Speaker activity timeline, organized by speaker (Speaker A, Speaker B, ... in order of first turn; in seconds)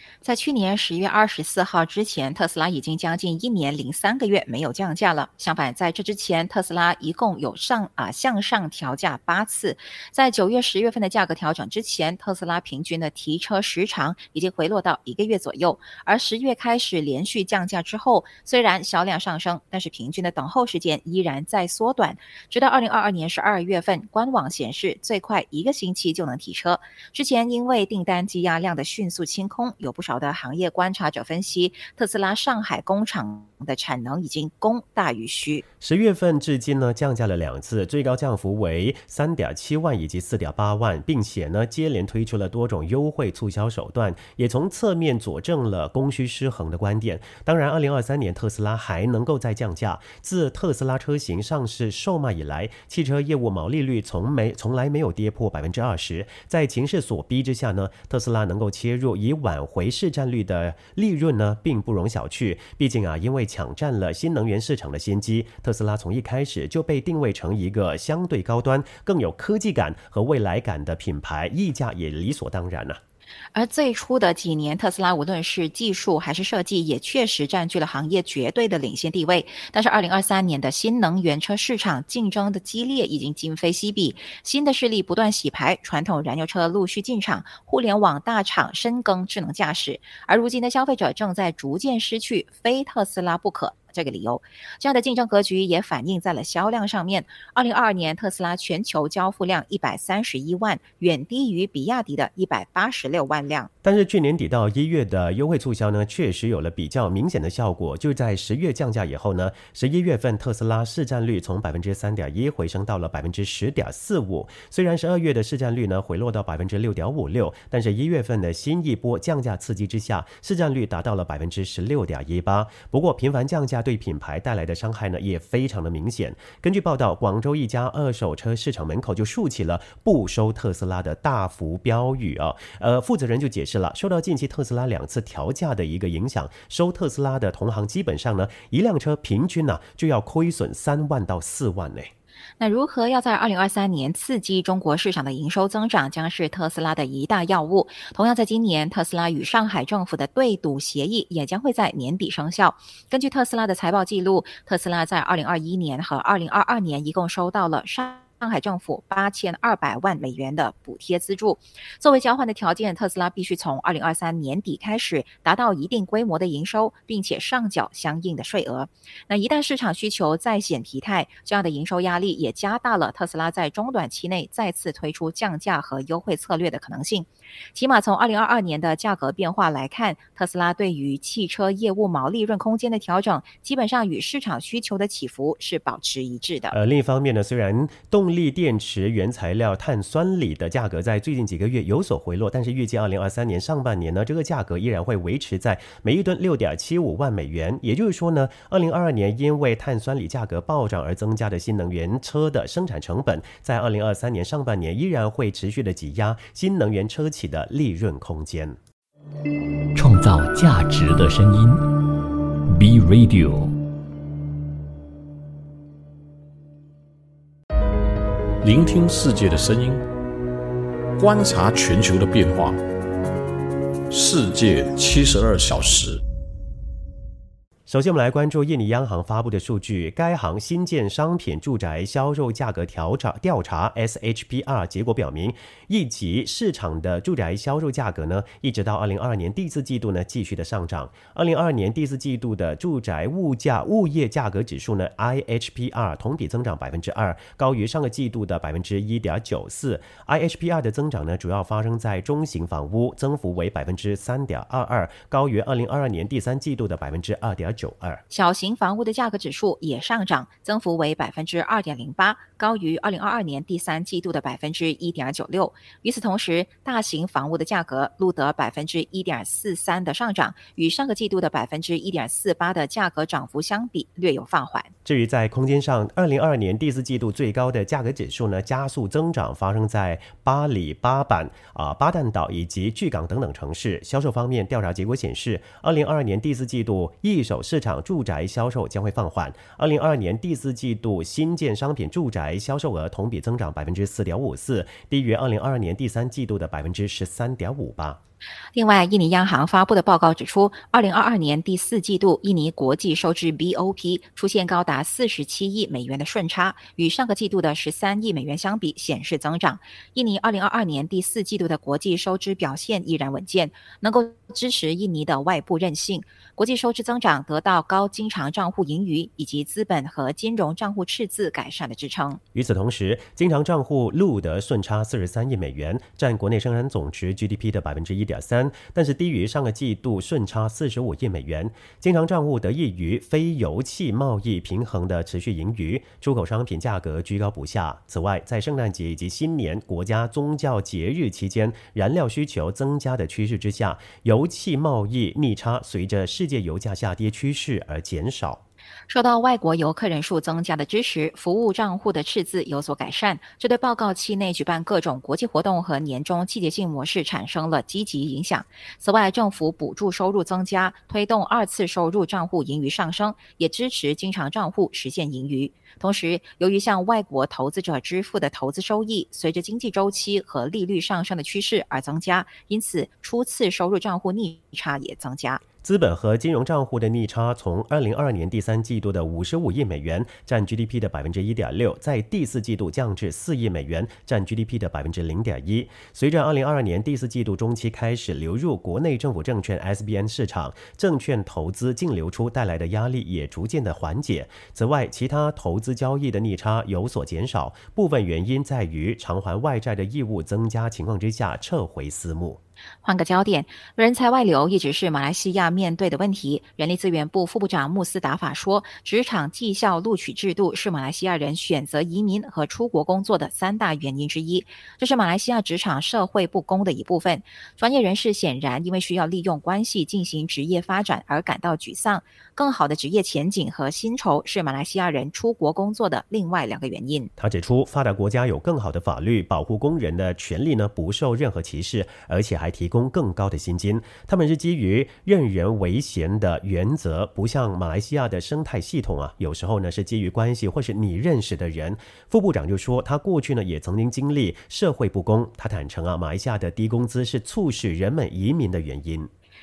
Speaker A: 0.2-35.6, 73.5-103.7, 142.6-186.8, 258.3-274.9, 298.7-322.4, 349.1-375.6, 403.0-427.3
Speaker B: 35.8-73.0, 103.8-142.1, 186.7-208.8, 227.9-258.2, 275.1-298.2, 322.5-348.6, 375.8-402.6, 427.4-449.3
Speaker C: 209.9-211.8, 212.7-213.7
Speaker D: 218.6-220.0, 221.2-222.8, 224.1-226.2